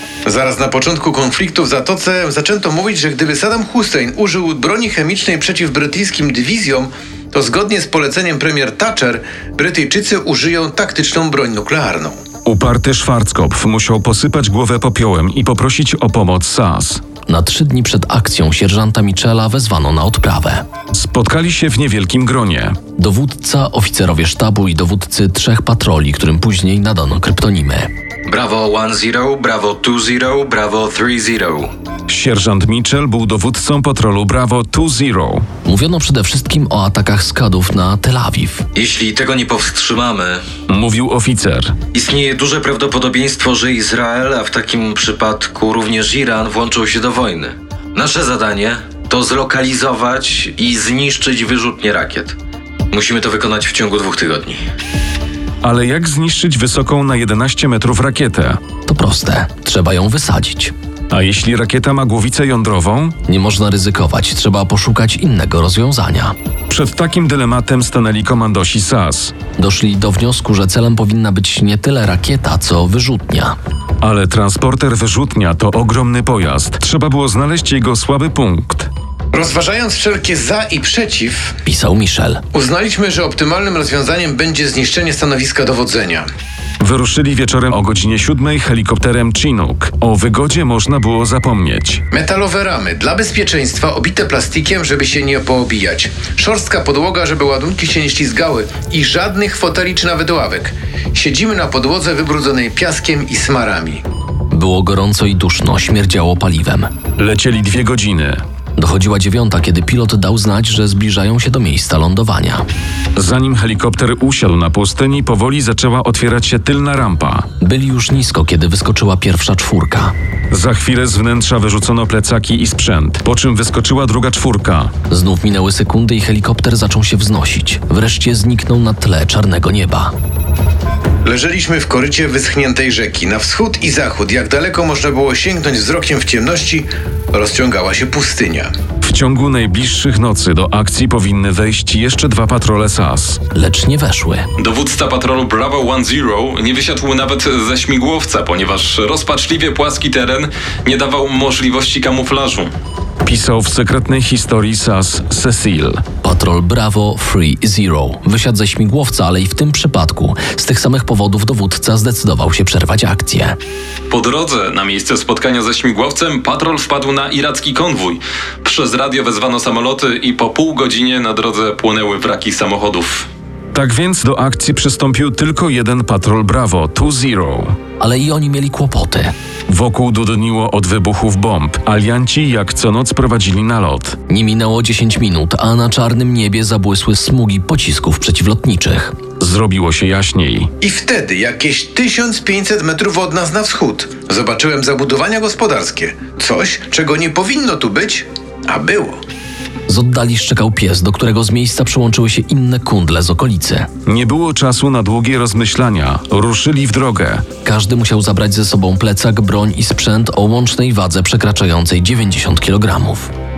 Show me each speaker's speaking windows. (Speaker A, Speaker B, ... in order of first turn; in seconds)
Speaker A: 0.2-12.2, 79.3-81.5, 82.5-86.2, 92.1-104.0, 131.2-138.7, 190.8-199.2
Speaker B: 12.4-17.0, 20.9-22.8, 32.1-35.5, 40.7-41.8, 55.6-58.6, 61.1-63.1, 66.7-69.3, 74.0-78.9, 86.8-92.0, 107.2-108.4, 113.2-117.5, 120.5-124.9, 139.0-143.4, 153.2-156.0, 173.7-177.8, 179.7-184.2, 189.4-190.7, 204.1-207.4
Speaker C: 17.3-20.6, 23.0-27.9, 35.6-38.6, 58.9-60.7, 63.3-66.3, 69.6-73.5, 81.6-82.4, 104.5-106.9, 108.8-112.6, 117.6-120.1, 125.1-130.1, 143.5-144.5, 156.2-163.6, 178.0-179.3, 184.3-189.2, 199.9-203.9, 207.6-213.3
Speaker D: 28.3-31.7, 38.7-40.4, 41.9-52.4, 52.9-54.6
Speaker E: 144.6-152.7, 164.1-173.3